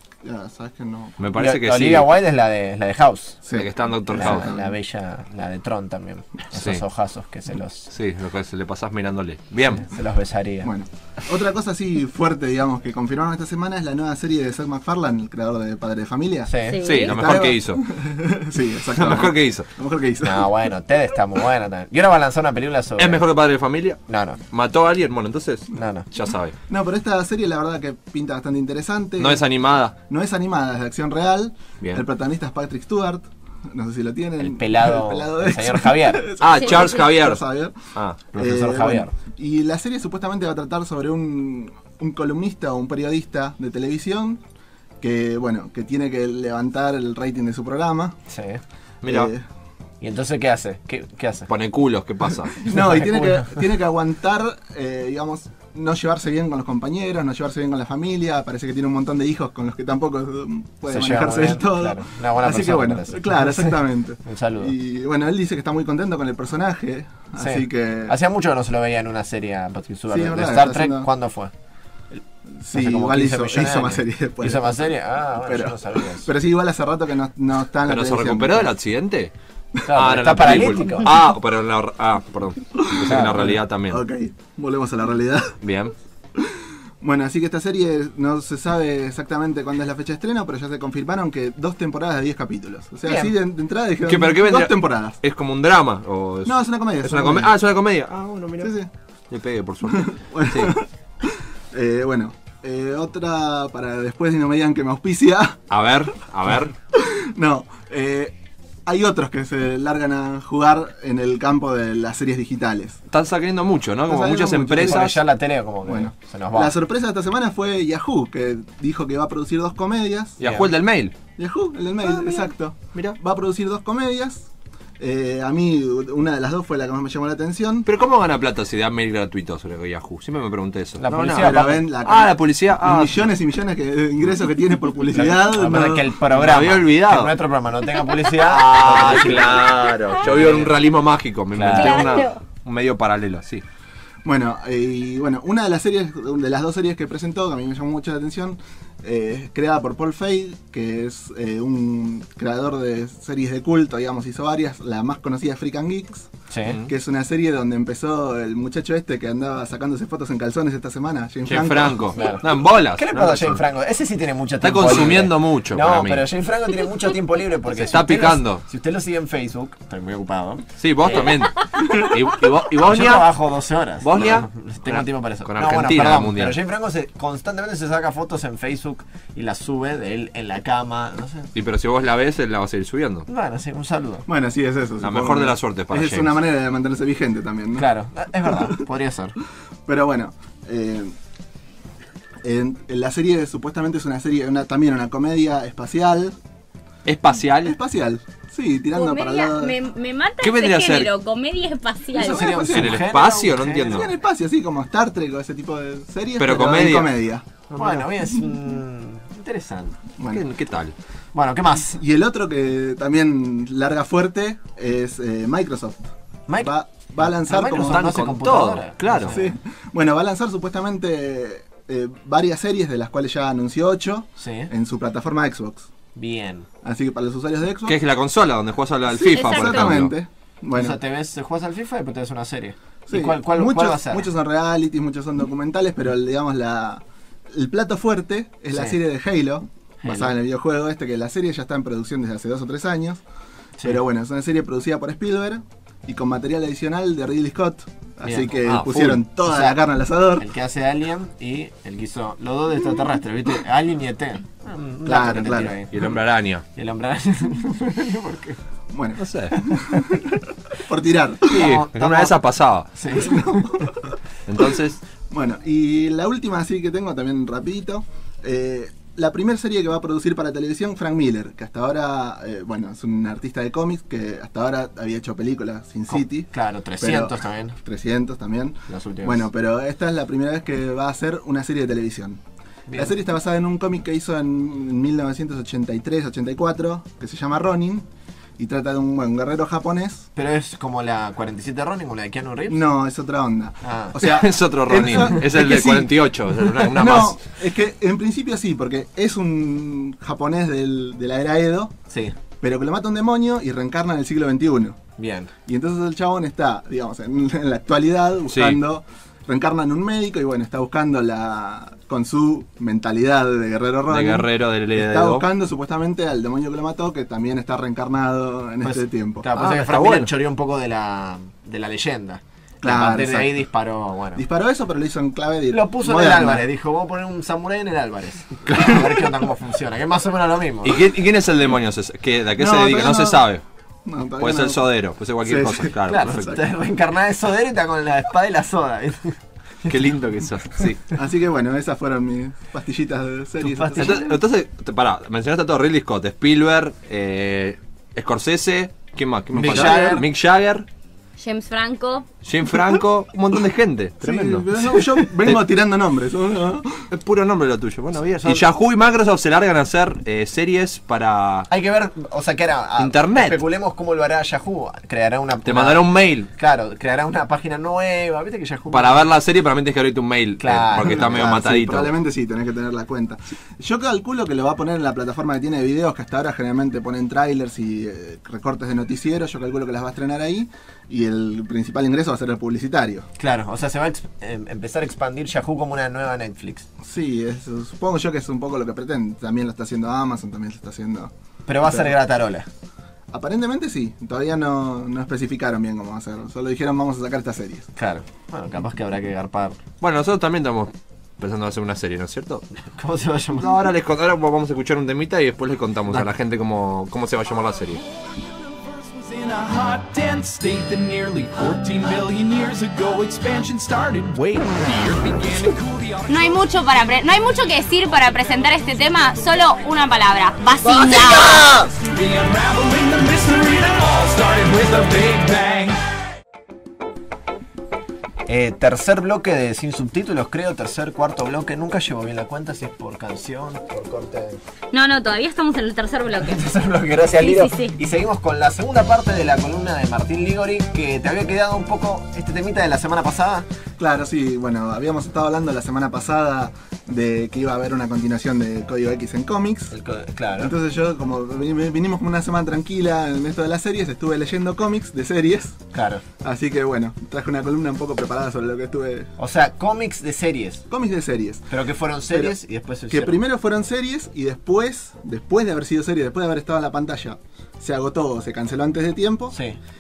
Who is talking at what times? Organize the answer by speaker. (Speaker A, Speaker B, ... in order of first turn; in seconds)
Speaker A: 0.2-1.2, 3.5-4.7, 10.6-16.5, 17.1-20.4, 26.7-29.4, 30.1-37.8, 38.3-44.4, 45.0-48.1, 49.1-49.4, 52.6-68.2, 70.1-71.1, 72.6-78.7, 83.0-85.5, 87.0-95.2, 96.5-97.5, 98.6-98.9, 99.9-100.8, 101.7-105.6, 106.9-108.3, 108.8-113.0, 114.1-115.1, 115.8-120.4, 121.4-124.5, 125.0-127.9, 131.4-136.1, 144.2-156.3, 156.9-162.0, 184.3-187.9, 189.8-191.1, 192.4-196.3, 197.6-199.8, 202.1-203.1, 203.8-208.5, 210.2-210.4, 211.8-218.3, 219.1-225.9, 226.8-228.0, 229.2-231.0, 233.1-243.2, 243.8-250.4, 255.1-255.8, 258.9-260.0, 260.9-261.7, 263.2-263.9, 265.3-282.4, 282.9-288.1, 288.6-290.3, 292.7-296.1, 296.8-301.9, 302.6-305.0, 305.6-319.4, 322.8-323.6, 324.3-326.6, 332.6-333.4, 334.0-334.8, 335.4-335.9, 341.1-344.2, 349.7-350.2, 354.2-356.9, 370.9-383.3, 387.0-391.3, 393.3-397.9, 421.1-421.9, 444.0-449.9, 450.6-455.9, 456.4-459.3, 460.9-461.7, 463.1-469.6
Speaker B: 1.2-2.1, 3.5-4.5, 6.5-6.8, 7.9-9.8, 16.8-17.8, 19.0-19.7, 23.0-24.0, 24.5-26.5, 29.2-29.9, 36.4-37.4, 37.9-38.2, 49.0-49.3, 51.5-52.5, 77.8-79.3, 79.9-84.0, 85.6-85.9, 94.0-98.7, 99.3-100.7, 105.7-106.7, 113.1-115.1, 120.4-121.1, 122.0-123.2, 127.8-133.2, 136.3-137.3, 138.4-143.6, 161.4-163.6, 164.6-166.3, 167.7-168.6, 170.8-173.3, 174.0-176.6, 181.5-183.2, 185.0-186.4, 197.0-197.7, 200.4-201.1, 202.7-204.1, 206.4-207.1, 210.3-210.9, 217.8-219.4, 227.8-230.1, 248.6-249.2, 255.9-256.6, 259.2-259.5, 261.5-262.9, 264.5-265.0, 294.2-297.4, 308.5-308.8, 314.1-315.4, 319.6-320.3, 328.6-329.1, 330.8-333.6, 334.4-336.6, 339.9-341.0, 344.0-350.9, 352.4-354.9, 357.1-361.7, 363.0-363.6, 365.6-366.5, 368.9-372.1, 400.0-402.6, 403.6-408.0
Speaker C: 1.3-3.4, 4.1-7.9, 9.7-10.7, 16.4-16.9, 20.2-23.2, 24.1-24.4, 25.7-26.1, 34.4-36.3, 38.3-39.1, 48.3-48.6, 50.0-51.5, 52.7-53.6, 60.9-64.7, 67.3-71.5, 72.7-76.3, 79.8-81.2, 83.1-83.6, 93.0-93.3, 114.8-116.7, 120.4-120.7, 131.0-131.8, 135.1-140.8, 141.5-142.2, 156.5-156.8, 162.1-171.5, 172.8-181.5, 183.3-184.2, 187.8-189.3, 202.1-204.0, 207.7-210.0, 211.3-212.0, 216.5-219.6, 224.4-224.7, 226.1-226.7, 230.7-234.3, 238.7-239.0, 240.0-240.3, 248.2-248.7, 249.4-249.8, 250.4-255.9, 256.8-258.6, 261.5-262.3, 262.9-263.9, 276.1-277.8, 278.9-279.5, 282.9-283.1, 290.4-292.9, 293.8-294.2, 302.1-302.4, 305.2-305.5, 318.8-324.4, 325.7-331.0, 336.0-340.1, 343.6-344.3, 349.5-350.2, 361.7-366.0, 366.5-369.3, 370.6-371.7, 383.4-386.9, 391.6-392.7, 397.9-399.8, 402.9-403.7, 428.4-434.6, 436.3-443.7, 449.9-450.7, 455.9-456.2, 459.4-460.8, 461.7-463.4, 469.5-469.8
Speaker D: 16.6-17.1, 141.7-142.4, 198.9-202.6, 229.3-229.9, 351.4-352.2, 416.3-421.7, 434.9-436.6, 437.3-437.9
Speaker E: 408.2-416.6, 421.1-426.0